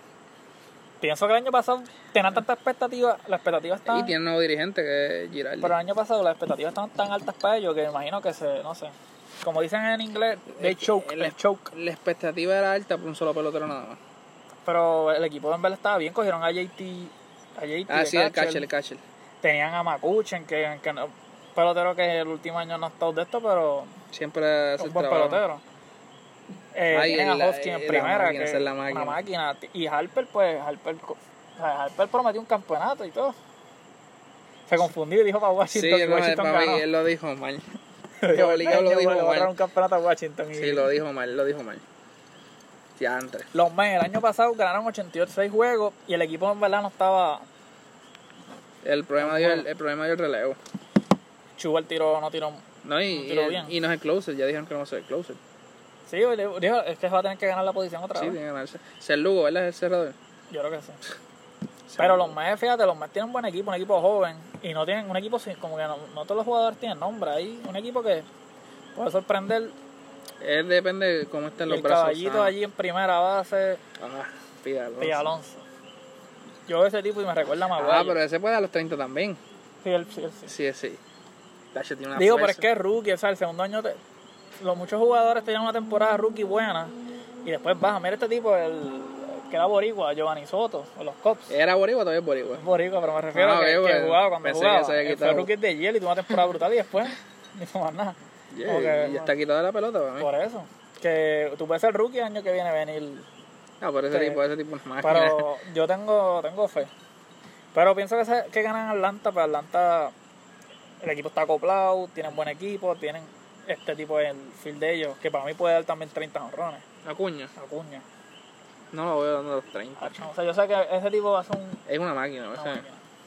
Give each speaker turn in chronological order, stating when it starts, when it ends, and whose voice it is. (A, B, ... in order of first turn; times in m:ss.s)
0:01.0-0:04.1 A
0:03.9-0:05.7 B
0:05.6-0:11.7 A
0:10.5-0:14.0 B
0:14.6-0:18.7 A
0:17.9-0:19.0 B
0:19.4-0:23.9 A
0:24.1-0:25.4 B
0:24.8-0:25.6 A
0:26.7-0:33.3 A
0:26.9-0:29.2 B
0:34.7-0:36.8 A
0:35.7-0:37.6 B
0:38.2-0:40.9 A
0:38.3-0:39.5 B
0:40.5-0:41.8 B
0:43.0-0:43.5 B
0:43.5-0:47.4 A
0:48.8-0:50.6 B
0:49.2-0:49.6 A
0:51.6-0:53.7 A
0:52.8-0:55.4 B
0:56.1-0:58.4 A
0:58.1-1:00.1 B
1:00.5-1:01.0 A
1:01.9-1:02.3 B
1:02.0-1:08.2 A
1:08.9-1:09.7 A
1:10.4-1:12.5 B
1:11.7-1:13.8 A
1:14.0-1:15.2 B
1:15.0-1:15.6 A
1:16.7-1:18.2 A
1:17.8-1:19.4 B
1:19.8-1:20.5 A
1:20.4-1:21.0 B
1:21.7-1:22.6 B
1:22.1-1:24.0 A
1:24.6-1:26.9 A
1:27.4-1:31.5 A
1:31.5-1:32.6 B
1:32.6-1:39.3 A
1:33.3-1:35.5 B
1:38.5-1:40.3 B
1:40.2-1:43.2 A
1:43.8-1:45.4 B
1:44.1-1:44.4 A
1:45.0-1:46.9 A
1:47.7-1:50.1 A
1:51.0-1:56.8 A
1:57.0-1:57.5 B
1:57.5-1:58.0 A
1:58.9-2:00.2 B
2:00.0-2:01.8 A
2:01.9-2:02.8 B
2:02.6-2:03.0 A